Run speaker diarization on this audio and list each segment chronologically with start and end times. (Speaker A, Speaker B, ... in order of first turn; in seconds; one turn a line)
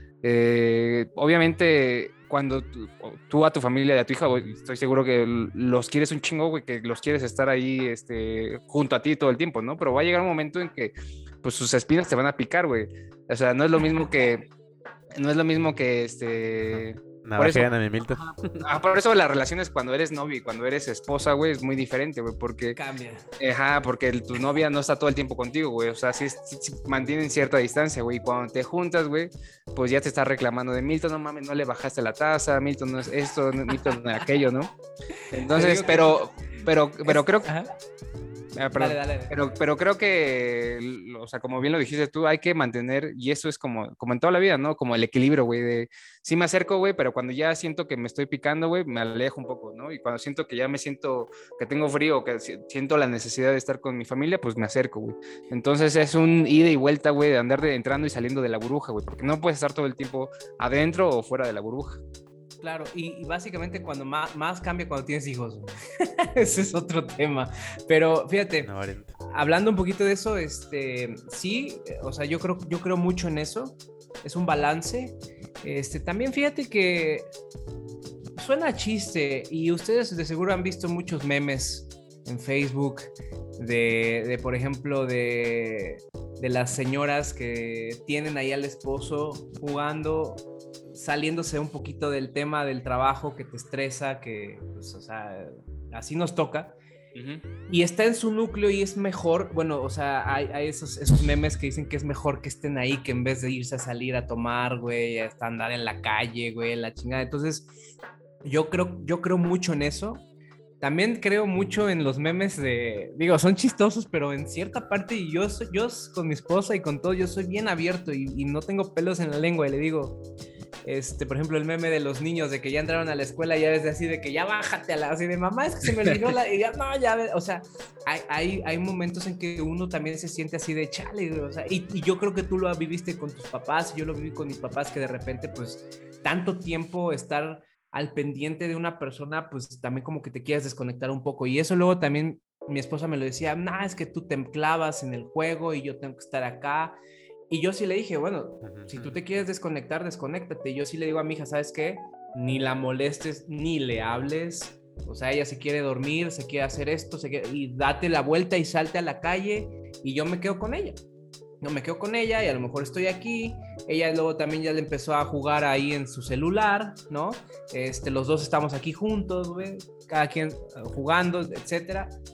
Speaker A: 0.2-14.5
Speaker A: 15.2-17.7
Speaker B: 16.7-18.7
Speaker A: 18.6-22.8
Speaker C: 22.8-23.3
Speaker A: 23.4-34.7
Speaker A: 35.3-37.5
Speaker C: 35.5-37.7
Speaker A: 38.6-62.0
Speaker C: 38.8-39.4
Speaker C: 62.6-77.3
Speaker B: 68.6-69.2
Speaker C: 78.4-96.8
Speaker A: 97.2-97.4
Speaker C: 97.7-107.7
Speaker C: 108.4-110.3
Speaker C: 110.8-120.2
Speaker C: 120.8-147.0
Speaker C: 147.5-161.0
Speaker B: 148.6-149.2
Speaker C: 161.6-172.2